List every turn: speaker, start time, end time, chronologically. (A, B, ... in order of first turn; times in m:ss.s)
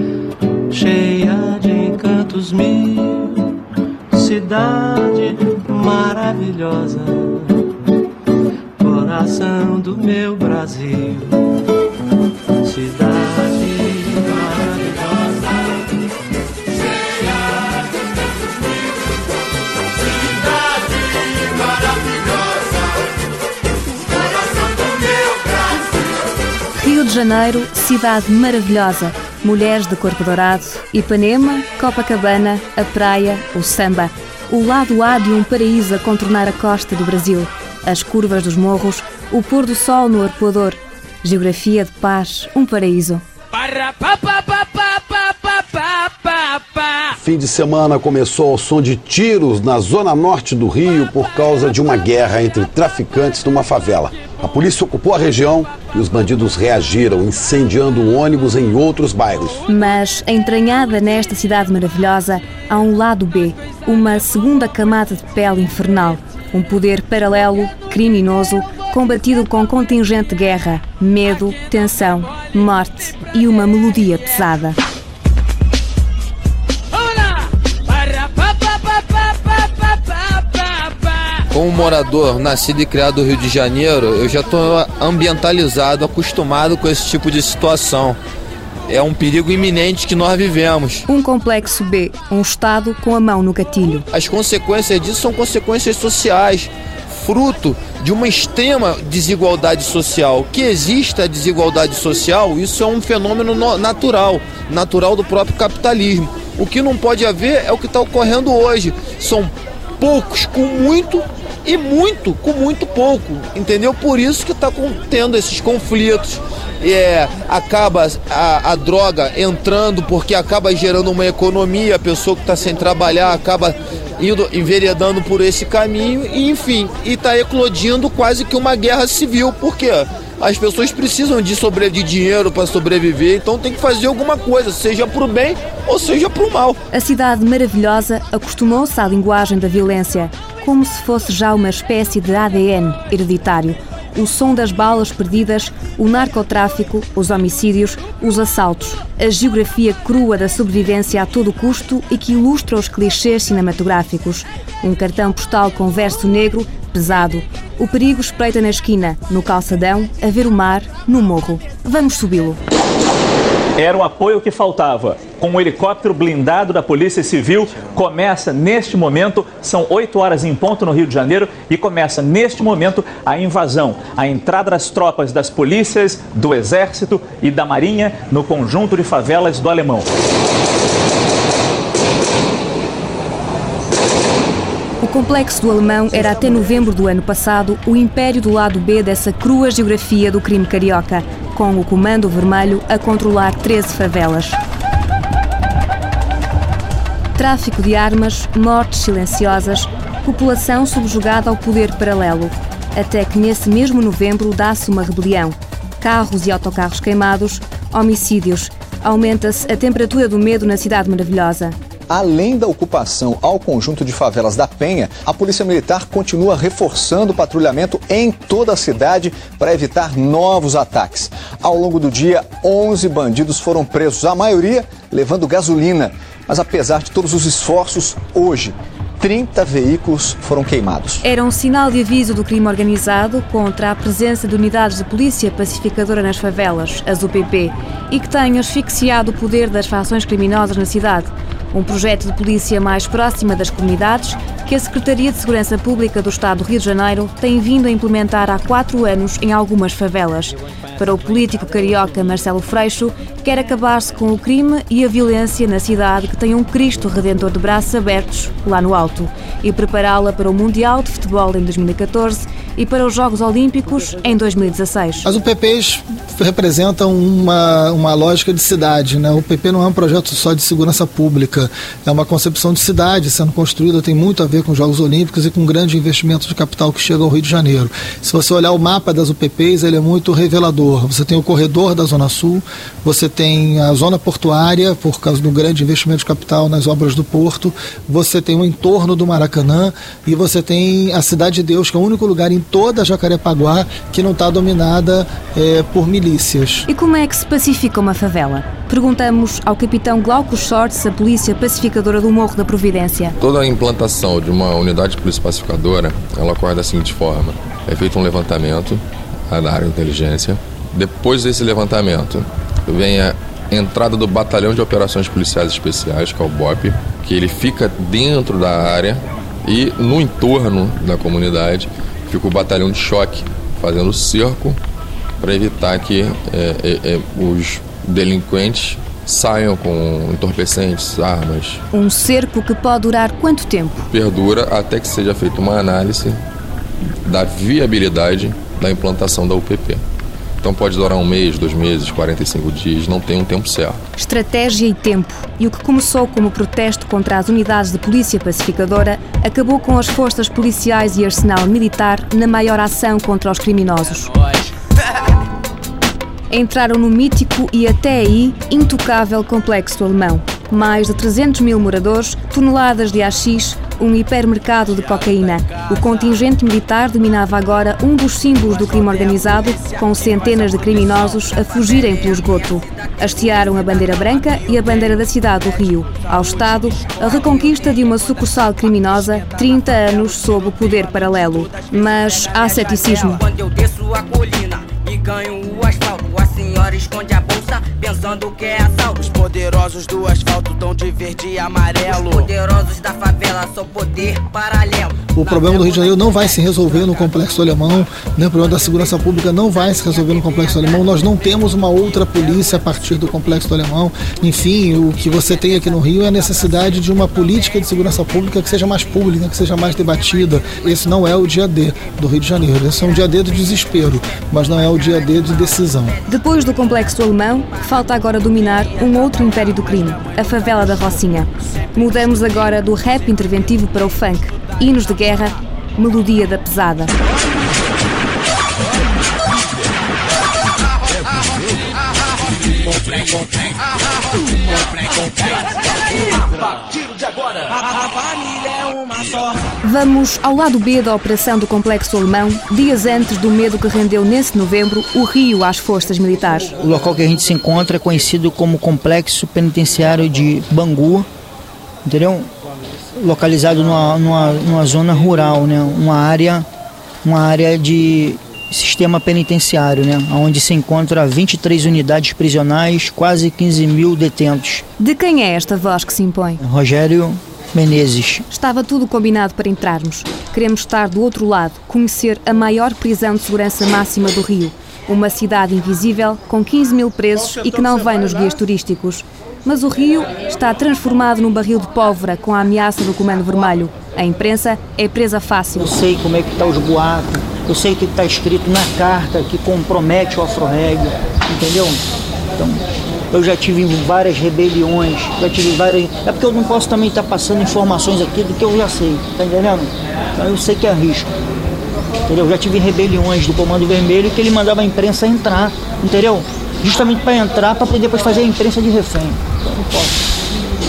0:00.7-0:03.4 A
0:04.1-0:07.6 A
0:08.8-0:11.4 A
0:12.6-0:15.6 A
0:26.8-0:43.2 B
0:47.2-0:59.6 C
0:59.7-1:14.8 B
1:21.5-1:28.2 D
1:28.9-1:31.1 D
1:31.1-1:34.1 B
1:34.1-2:16.8 D
2:16.9-2:42.6 B
2:43.8-3:00.1 E
3:05.0-3:14.6 B
3:17.4-3:31.8 B
3:32.1-3:51.2 F
3:51.2-4:25.3 B
4:25.2-4:56.9 G
4:56.9-5:03.4 B
5:03.4-5:24.8 H
5:25.4-5:31.8 H
5:31.9-5:34.0 B
5:34.1-5:36.4 H
5:37.2-5:40.0 H
5:40.6-5:44.0 H
5:44.2-5:54.3 B
5:56.5-6:23.4 B
6:09.0-6:12.6 I
6:22.4-6:35.3 I
6:35.4-6:56.2 G
6:56.3-7:07.1 B
7:19.8-7:26.7 B
7:26.8-7:31.3 J
7:32.0-7:32.5 J
7:33.2-7:36.7 J
7:37.2-7:44.8 J
7:45.0-7:46.6 B
7:46.6-7:48.4 J
7:48.5-8:05.9 B
8:05.8-8:12.0 J
8:12.6-8:21.3 J
8:22.3-8:30.2 J